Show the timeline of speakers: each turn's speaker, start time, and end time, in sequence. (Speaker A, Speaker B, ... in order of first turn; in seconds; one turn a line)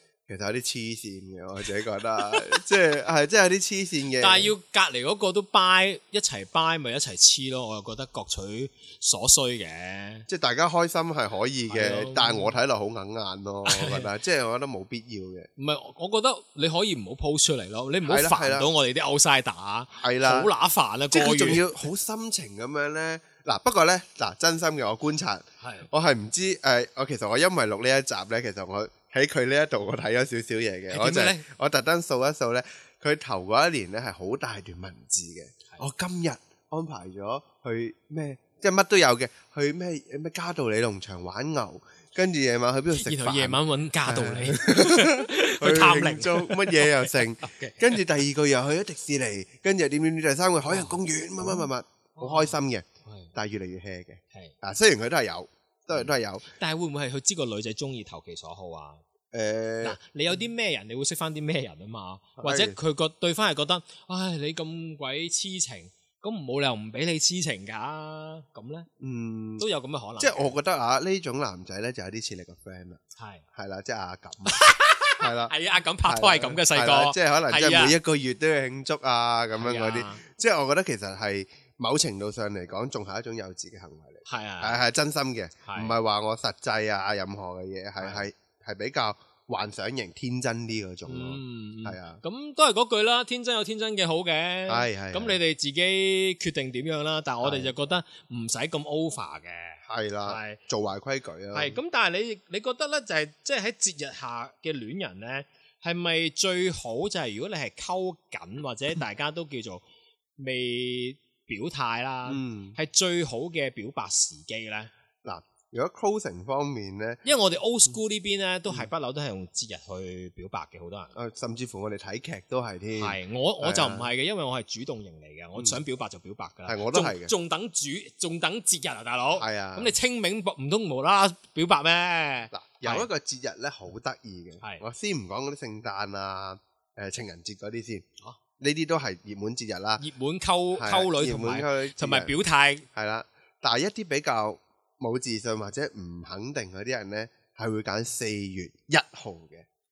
Speaker A: 0.3-4.5
Speaker B: 2.2-2.6
Speaker B: 4.2-10.2
Speaker A: 10.3-15.5
Speaker B: 11.7-12.5
Speaker B: 13.6-14.1
Speaker B: 15.6-21.7
Speaker A: 18.0-18.7
Speaker A: 19.9-20.5
Speaker A: 21.1-56.5
Speaker B: 25.6-25.9
Speaker B: 30.9-31.4
Speaker B: 42.9-48.1
Speaker B: 50.6-53.3
Speaker B: 55.9-59.0
Speaker A: 59.3-60.0
Speaker B: 59.8-68.9
Speaker A: 62.4-62.8
Speaker A: 69.0-69.7
Speaker B: 69.6-70.5
Speaker A: 70.2-73.0
Speaker B: 73.2-73.4
Speaker A: 73.5-74.6
Speaker B: 74.5-78.0
Speaker A: 75.2-92.2
Speaker B: 79.5-80.2
Speaker B: 84.3-84.8
Speaker B: 85.6-86.0
Speaker B: 91.0-100.6
Speaker A: 94.7-95.4
Speaker A: 97.4-97.7
Speaker A: 99.9-101.8
Speaker B: 101.5-109.8
Speaker B: 110.4-114.9
Speaker A: 112.2-112.8
Speaker A: 115.2-117.2
Speaker B: 117.2-121.1
Speaker A: 121.1-124.1
Speaker B: 123.0-133.1
Speaker A: 125.5-125.8
Speaker A: 126.7-127.3
Speaker A: 129.3-130.0
Speaker A: 132.5-138.0
Speaker A: 138.6-140.0
Speaker B: 140.0-142.9
Speaker A: 140.7-142.3
Speaker A: 142.9-149.6